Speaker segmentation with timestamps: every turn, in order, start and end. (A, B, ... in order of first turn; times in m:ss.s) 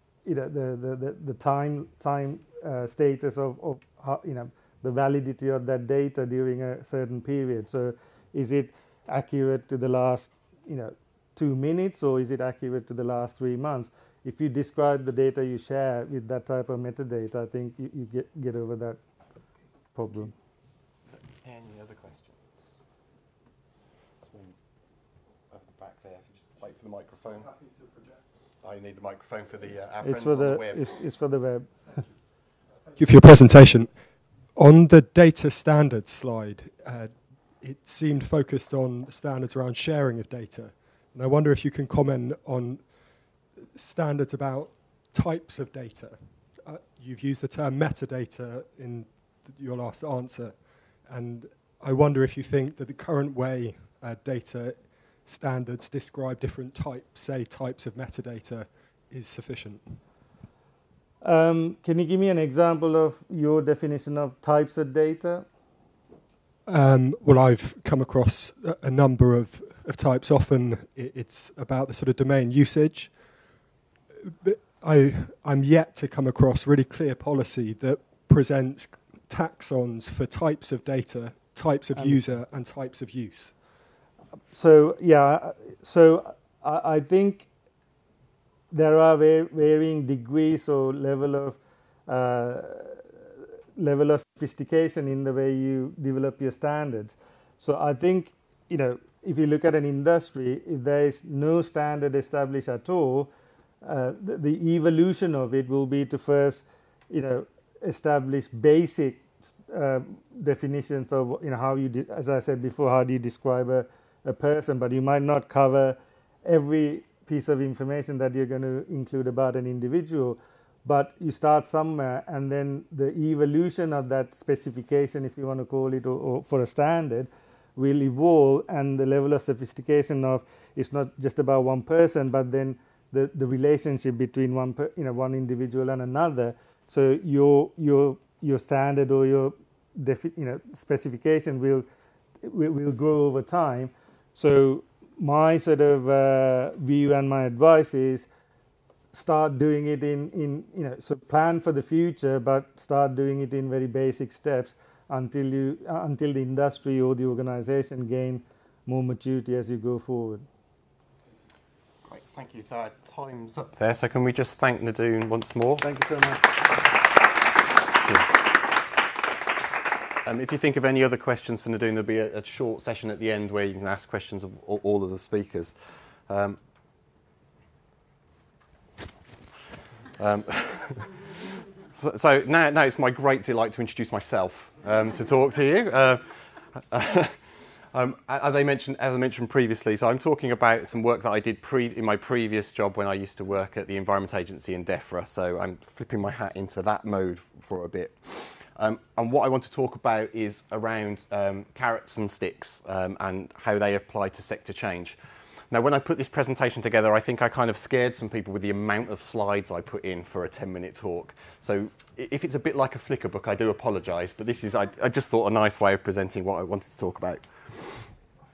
0:00.2-0:19.0 A
0:19.9-0:20.3 A
0:21.1-0:22.4 B
0:24.2-0:24.6 B
0:25.5-0:27.5 B
0:28.6-0:30.9 B
0:30.0-0:31.8 A
0:33.0-1:00.0 C
1:01.2-1:05.4 A
1:06.7-1:13.6 C
1:14.2-1:23.6 C
1:21.9-1:22.2 A
1:24.5-1:27.5 A
1:28.7-1:33.1 A
1:33.8-1:43.3 A
1:43.8-2:21.8 A
2:22.4-2:28.3 A
2:29.1-2:40.4 A
2:42.0-2:45.8 B
2:45.9-2:46.4 A
2:50.2-2:55.7 B
2:56.3-2:56.6 B
3:00.2-3:01.1 B
3:01.9-3:07.4 B
3:07.9-3:25.2 B
3:25.7-3:38.1 B